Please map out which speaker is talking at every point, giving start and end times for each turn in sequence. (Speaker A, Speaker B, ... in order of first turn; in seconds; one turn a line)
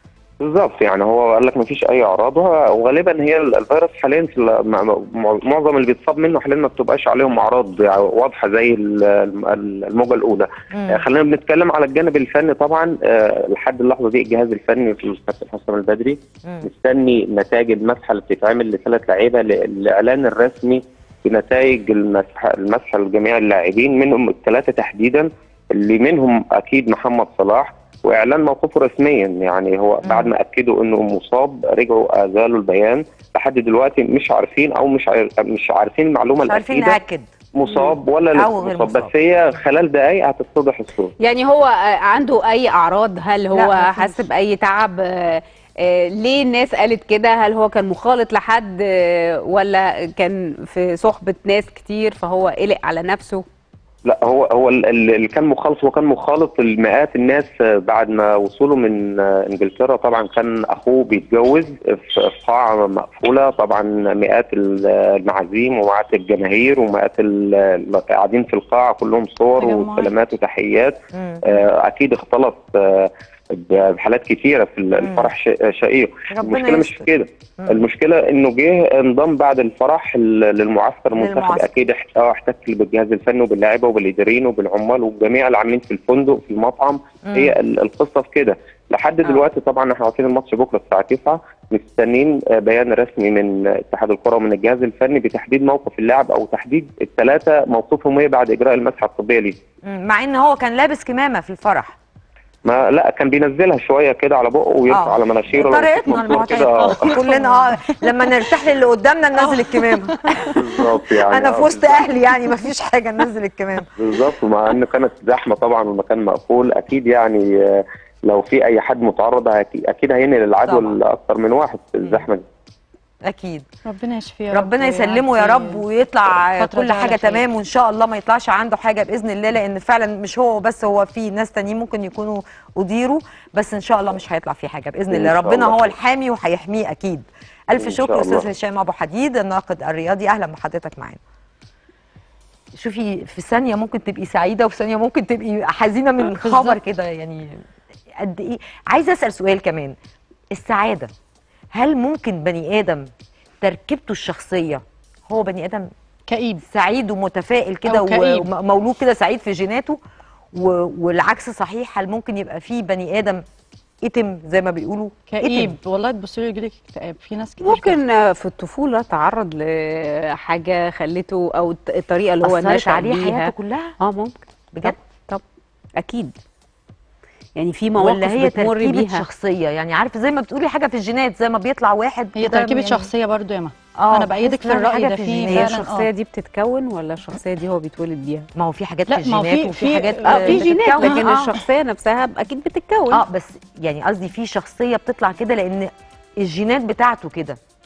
Speaker A: 0.4-37.0
Speaker B: 10.7-11.0
Speaker B: 30.0-30.3
Speaker B: 36.4-39.1
Speaker A: 37.5-41.1
Speaker C: 41.2-53.4
Speaker B: 43.5-44.3
Speaker A: 54.0-71.0
Speaker D: 69.5-70.1
Speaker B: 71.1-71.4
Speaker A: 71.5-99.6
Speaker B: 75.0-75.3
Speaker B: 76.3-77.1
Speaker B: 81.2-81.7
Speaker B: 87.2-87.5
Speaker B: 99.8-102.0
Speaker A: 102.6-107.2
Speaker B: 104.9-113.9
Speaker D: 106.1-108.3
Speaker D: 109.4-110.6
Speaker A: 110.5-112.0
Speaker A: 114.0-122.4
Speaker B: 120.7-121.0
Speaker B: 122.0-122.2
Speaker B: 123.2-123.7
Speaker D: 123.8-125.8
Speaker B: 124.5-141.2
Speaker D: 126.6-127.4
Speaker A: 135.1-135.9
Speaker A: 137.8-138.4
Speaker B: 142.8-147.6
Speaker D: 146.4-146.8
Speaker B: 148.2-149.9
Speaker B: 150.5-151.1
Speaker B: 151.7-153.1
Speaker B: 153.6-155.9
Speaker D: 156.3-156.6
Speaker B: 156.7-160.0
Speaker D: 157.8-158.5
Speaker B: 160.5-163.4
Speaker B: 164.0-165.8
Speaker D: 165.3-168.0
Speaker C: 167.6-175.4
Speaker B: 172.4-174.0
Speaker B: 174.7-175.0
Speaker C: 176.0-176.3
Speaker C: 177.6-179.2
Speaker B: 178.0-183.1
Speaker D: 182.3-186.1
Speaker B: 183.9-185.8
Speaker C: 185.5-188.5
Speaker B: 188.5-191.5
Speaker D: 189.1-191.6
Speaker C: 190.2-193.2
Speaker B: 193.1-197.6